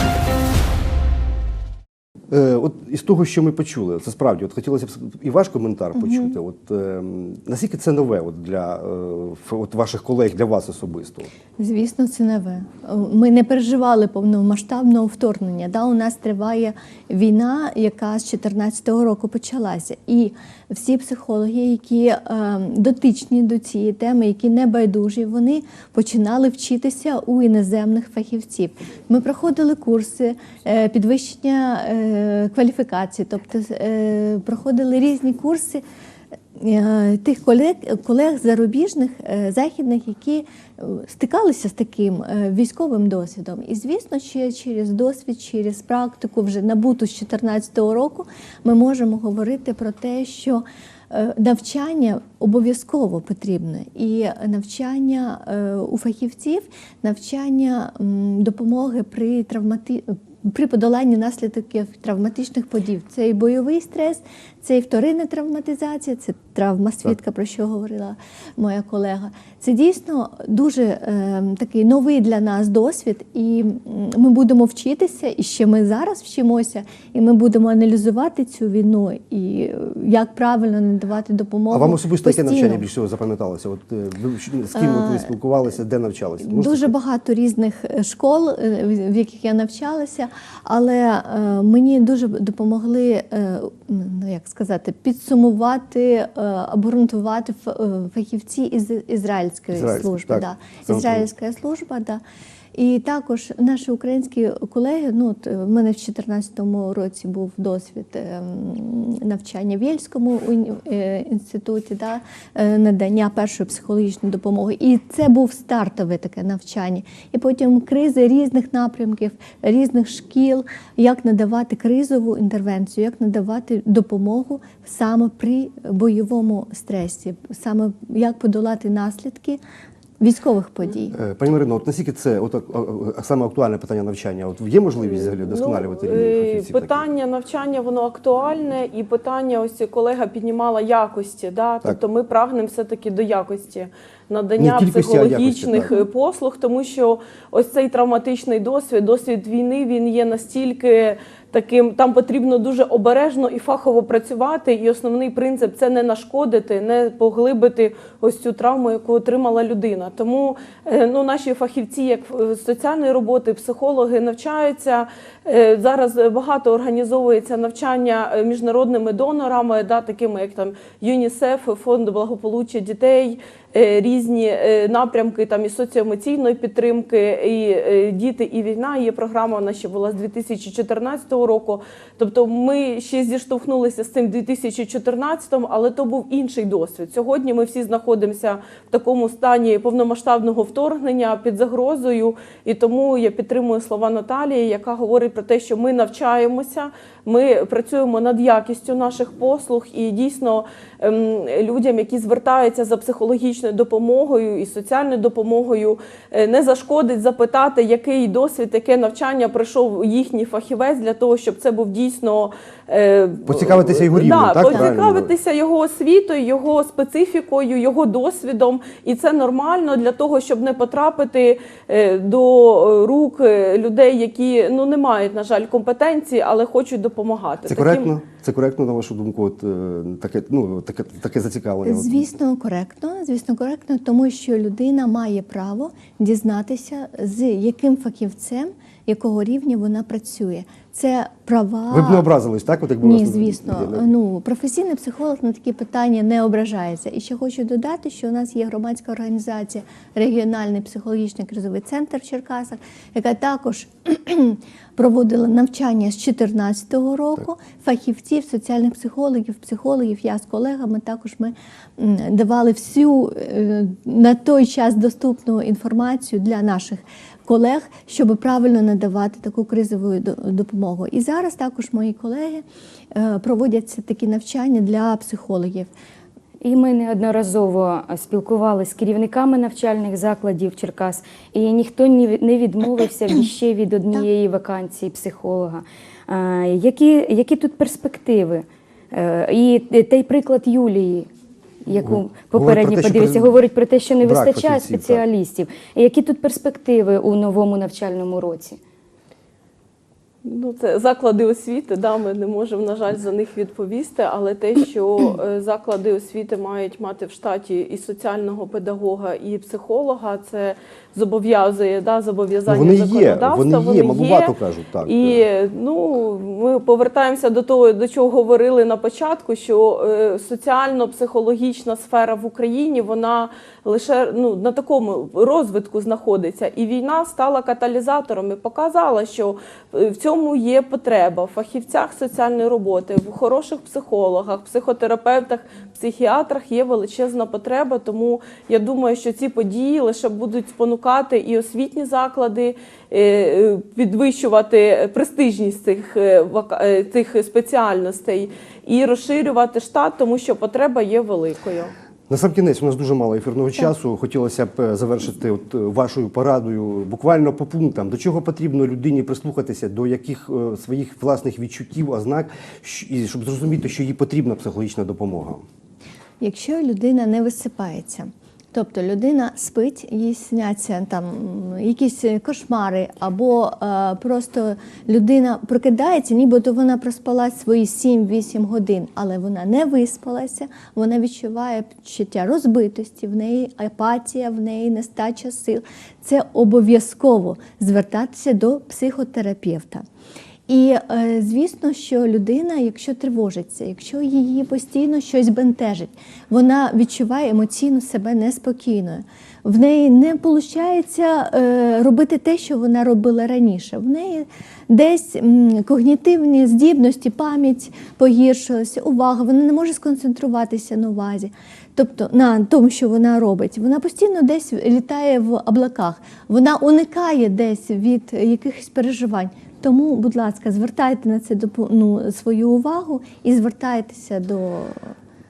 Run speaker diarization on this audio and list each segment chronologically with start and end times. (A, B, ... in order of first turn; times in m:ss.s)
0:02.3-0:11.3 A
0:06.0-0:06.3 B
0:11.6-0:35.8 B
0:36.5-1:22.9 B
1:21.7-1:26.9 A
1:24.7-1:25.3 B
1:26.4-1:42.2 B
1:39.7-1:41.2 A
1:42.7-2:09.6 B
2:10.2-2:11.2 B
2:11.1-2:17.0 A
2:15.0-3:48.1 C
2:24.6-2:25.9 A
3:33.4-3:35.3 A
3:47.6-3:52.3 A
3:51.8-4:02.3 B
4:01.9-4:04.1 A
4:03.0-4:35.9 B
4:36.6-4:51.3 D
4:51.8-4:58.8 D
4:51.9-4:53.6 A
4:54.2-4:55.2 A
5:00.4-5:14.5 C
5:12.7-5:15.4 A
5:15.0-5:51.9 C
5:52.3-6:05.6 A
6:06.4-6:30.0 B
6:30.7-7:05.1 B